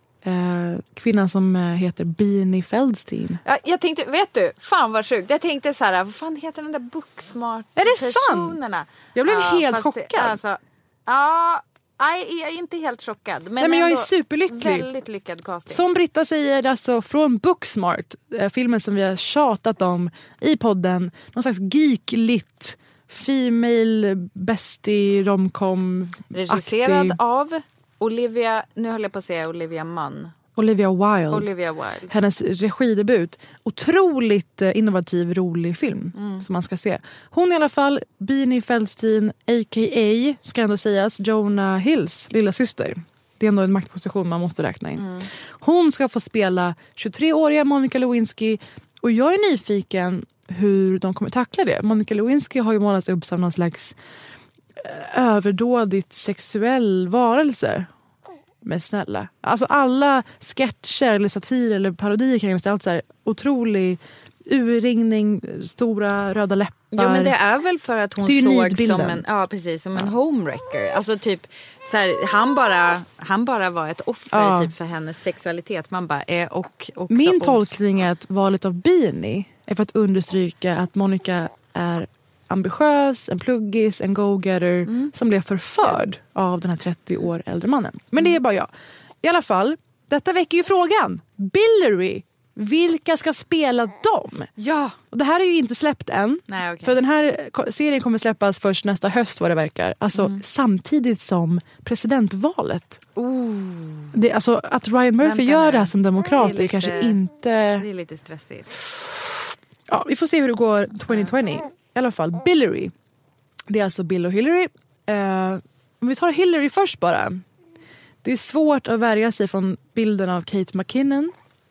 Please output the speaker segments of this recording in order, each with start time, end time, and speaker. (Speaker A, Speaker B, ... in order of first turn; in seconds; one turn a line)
Speaker A: 0.2-3.4
Speaker B: 3.4-15.8
Speaker A: 7.8-8.6
Speaker A: 9.1-10.4
Speaker A: 13.6-14.9
Speaker A: 15.7-27.2
Speaker B: 26.3-30.3
Speaker A: 30.6-31.5
Speaker B: 31.3-32.1
Speaker A: 32.1-54.0
Speaker B: 36.1-36.4
Speaker B: 45.0-45.3
Speaker A: 54.8-57.9
Speaker A: 58.6-67.3
Speaker B: 66.9-77.8
Speaker A: 68.2-69.2
Speaker A: 74.3-74.7
Speaker A: 77.1-88.7
Speaker B: 84.9-85.1
Speaker A: 89.2-94.5
Speaker B: 94.6-95.0
Speaker A: 95.1-103.0
Speaker B: 96.5-97.0
Speaker B: 103.2-104.1
Speaker A: 104.1-107.8
Speaker B: 105.2-107.2
Speaker B: 107.8-108.8
Speaker A: 109.9-112.9
Speaker A: 113.7-117.4
Speaker A: 118.2-121.3